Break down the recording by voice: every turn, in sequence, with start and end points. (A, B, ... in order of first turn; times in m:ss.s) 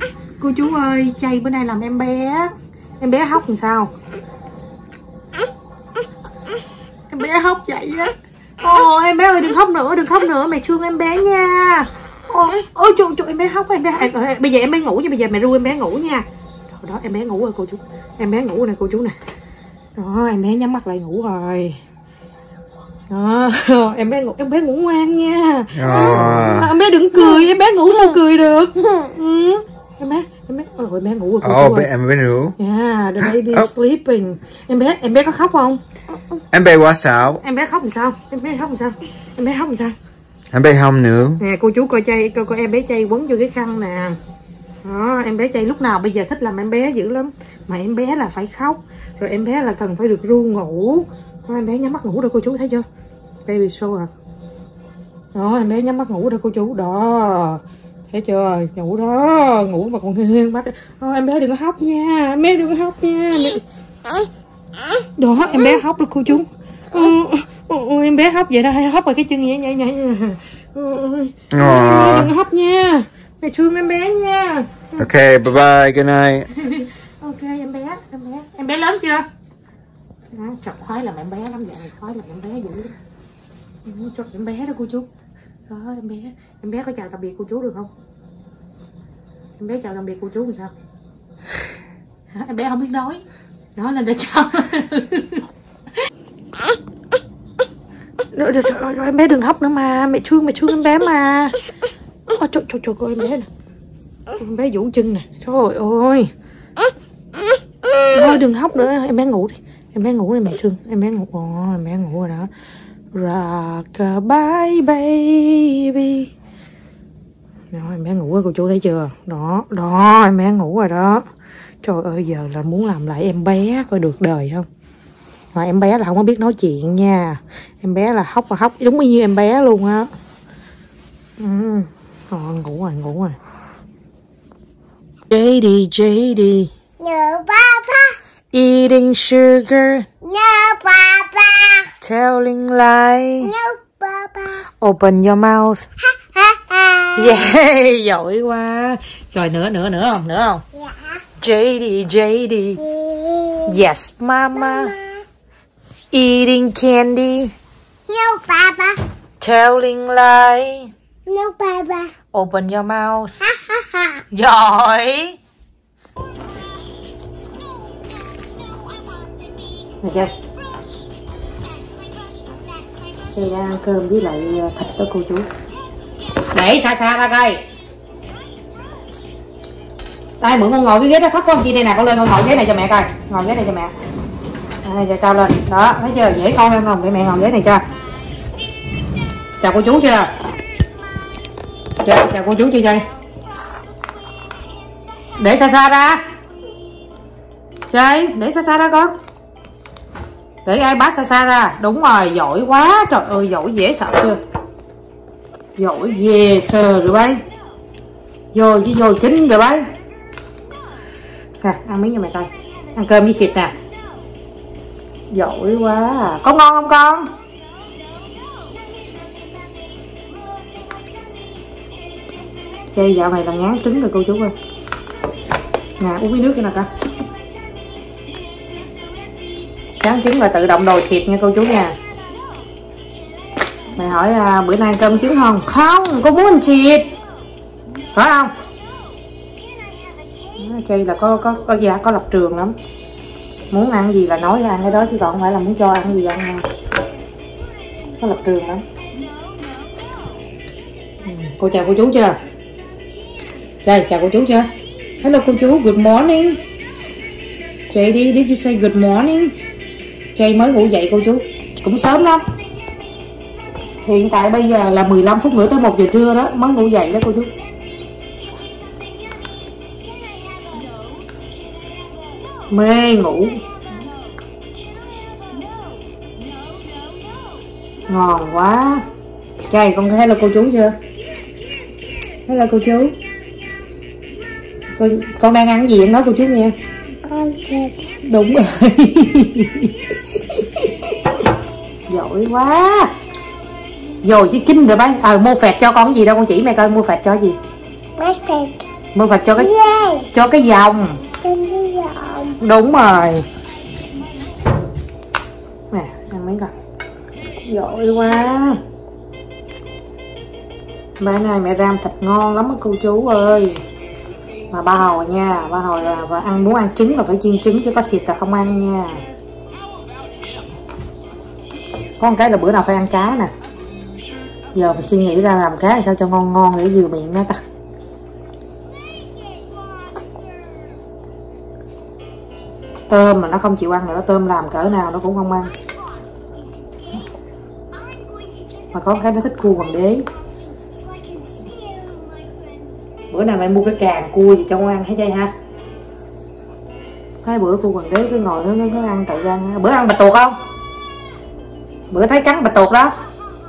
0:00.4-0:03.9 A
0:07.1-0:19.2 A
0:20.0-0:21.8 A
0:23.1-0:31.9 A
0:25.8-0:26.7 B
0:31.4-0:32.5 B
0:32.6-0:35.8 A
0:33.4-0:33.7 B
0:36.5-0:37.4 B
0:37.4-0:39.9 A
0:40.5-0:41.4 B
0:41.4-0:44.2 A
0:44.8-0:52.8 A
0:53.4-0:54.1 A
0:55.3-1:03.6 A
1:05.2-1:15.0 A
1:11.5-1:12.3 B
1:15.0-1:16.4 B
1:16.5-1:19.2 A
1:20.3-1:22.9 A
1:23.8-1:25.1 A
1:25.7-1:27.9 A
1:29.6-1:30.7 A
1:32.3-1:33.2 A
1:33.8-1:35.4 A
1:38.3-1:41.6 A
1:42.3-1:43.5 A
1:44.4-1:46.3 A
1:48.1-1:52.5 A
1:53.1-1:56.3 A
1:57.7-2:01.2 A
2:01.8-2:04.7 A
2:05.5-2:10.1 A
2:11.4-2:13.4 A
2:15.3-2:16.7 A
2:17.0-2:18.2 C
2:18.5-2:20.0 A
2:20.2-2:21.9 C
2:22.0-2:23.5 A
2:23.4-2:24.6 C
2:24.8-2:25.8 A
2:26.0-2:27.3 C
2:27.2-2:30.6 A
2:31.4-2:32.8 A
2:32.8-2:33.8 C
2:33.6-2:34.9 A
2:34.6-2:35.0 C
2:36.1-2:37.5 A
2:38.1-2:39.0 C
2:39.4-2:40.9 A
2:41.3-2:42.1 C
2:42.3-2:43.3 A
2:43.5-2:44.2 C
2:44.3-2:45.4 A
2:50.0-2:50.3 A
2:53.3-2:55.5 A
2:56.5-2:57.6 A
3:00.4-3:03.9 A
3:04.8-3:07.8 A
3:09.6-3:10.3 A
3:12.0-3:13.0 A
3:15.4-3:16.2 A
3:17.9-3:19.1 A
3:20.6-3:24.4 A
3:25.8-3:27.4 A
3:28.5-3:29.8 A
3:31.6-3:33.7 A
3:35.3-3:37.3 A
3:42.9-3:44.5 A
3:46.0-3:46.9 A
3:50.0-3:51.9 A
3:54.0-3:57.1 A
3:58.1-3:58.5 A
4:00.6-4:02.7 A
4:03.7-4:06.6 A
4:08.2-4:08.8 A
4:11.2-4:12.4 A
4:13.8-4:14.7 A
4:15.2-4:16.6 A
4:17.9-4:19.5 A
4:20.3-4:22.4 A
4:24.0-4:27.5 A
4:32.7-4:33.6 A
4:38.1-4:39.0 A
4:39.7-4:40.9 A
4:42.4-4:43.1 A
4:45.0-4:46.7 A
4:47.2-4:48.0 C
4:48.2-4:51.1 A
4:52.1-4:53.1 A
4:54.2-4:57.6 A
4:58.2-4:58.7 C
4:59.1-4:59.7 A
4:59.6-5:00.3 C
5:00.3-5:01.2 A
5:01.4-5:02.6 C
5:02.6-5:03.4 A
5:05.9-5:06.7 A
5:07.6-5:08.8 A
5:11.2-5:13.8 A
5:14.7-5:19.2 A
5:22.2-5:23.5 A
5:24.7-5:27.6 A
5:33.1-5:35.7 A
5:38.9-5:40.2 A
5:41.9-5:42.2 C
5:43.3-5:45.5 A
5:47.4-5:50.5 A
5:52.1-5:53.1 A